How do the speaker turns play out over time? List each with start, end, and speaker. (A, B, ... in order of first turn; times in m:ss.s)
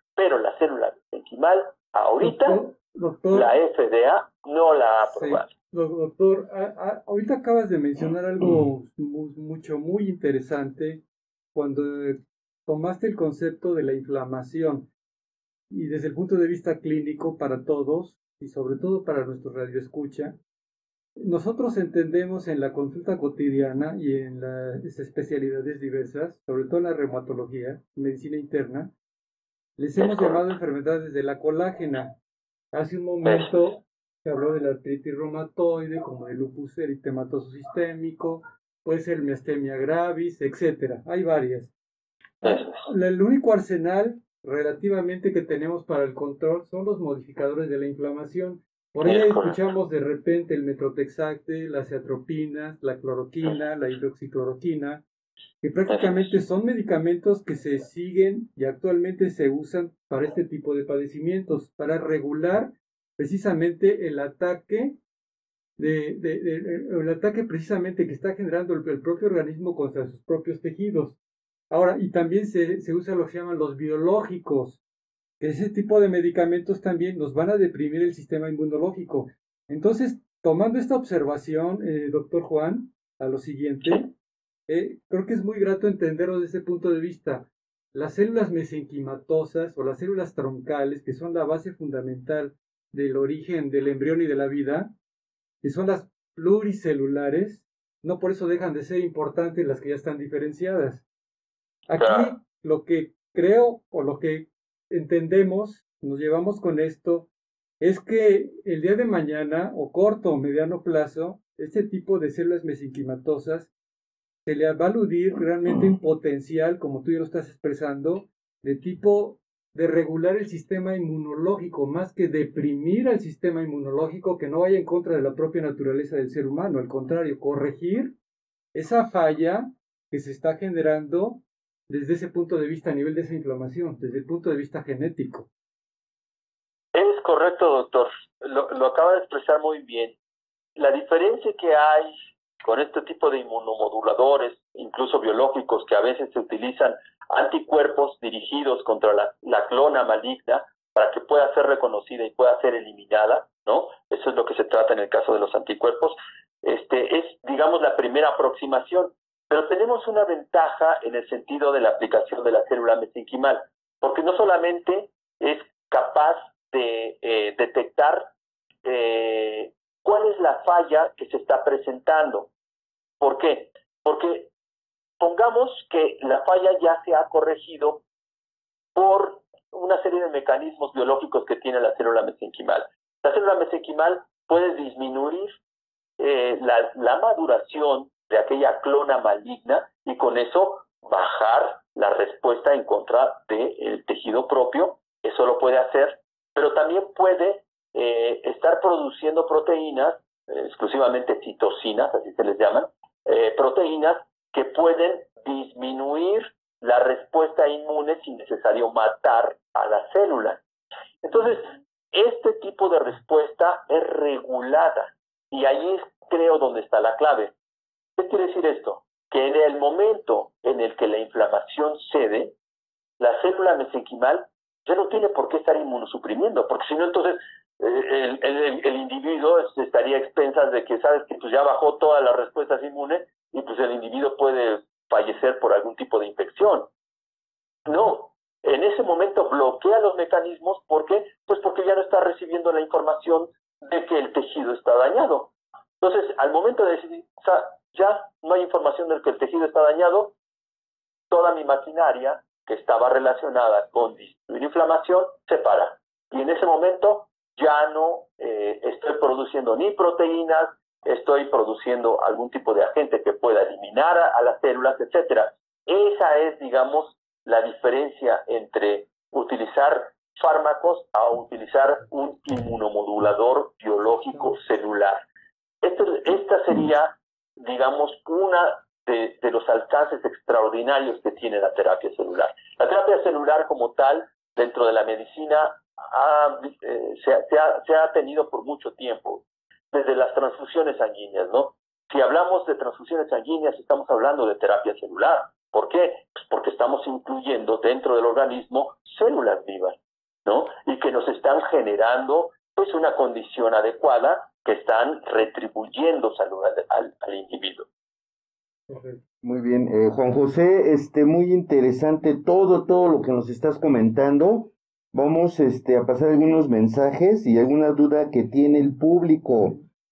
0:00.2-0:02.6 A
0:02.2-0:03.5 B
0:03.3-0:05.5 A
0:05.0-0:11.0 B
0:11.5-0:14.9 B
0:15.7-0:20.4 B
0:21.2-0:28.9 B
0:29.8-0:32.1 B
0:30.0-0:30.4 A
0:32.7-0:41.7 B
0:33.2-0:33.7 A
0:42.4-0:42.9 A
0:42.4-0:55.0 B
0:49.0-0:49.6 A
0:55.6-1:05.0 B
0:55.9-0:56.3 A
1:05.8-1:11.2 B
1:11.7-1:14.8 B
1:15.4-1:24.1 B
1:24.7-1:34.9 B
1:35.6-1:41.0 B
1:41.9-1:47.3 B
1:42.0-1:42.3 A
1:47.8-1:53.7 B
1:54.4-2:08.1 B
2:08.7-2:15.5 B
2:16.9-2:20.2 A
2:20.8-2:48.3 A
2:48.8-2:52.5 A
2:53.2-2:54.5 A
2:55.2-2:58.0 A
2:58.9-3:05.5 A
3:06.2-3:30.6 A
3:31.2-3:37.5 A
3:38.2-3:42.5 A
3:43.2-3:56.9 A
3:57.8-4:10.3 A
4:11.3-4:35.2 A
4:34.3-4:34.6 B
4:35.8-5:07.9 A
5:08.9-5:09.2 B
5:09.4-5:19.8 C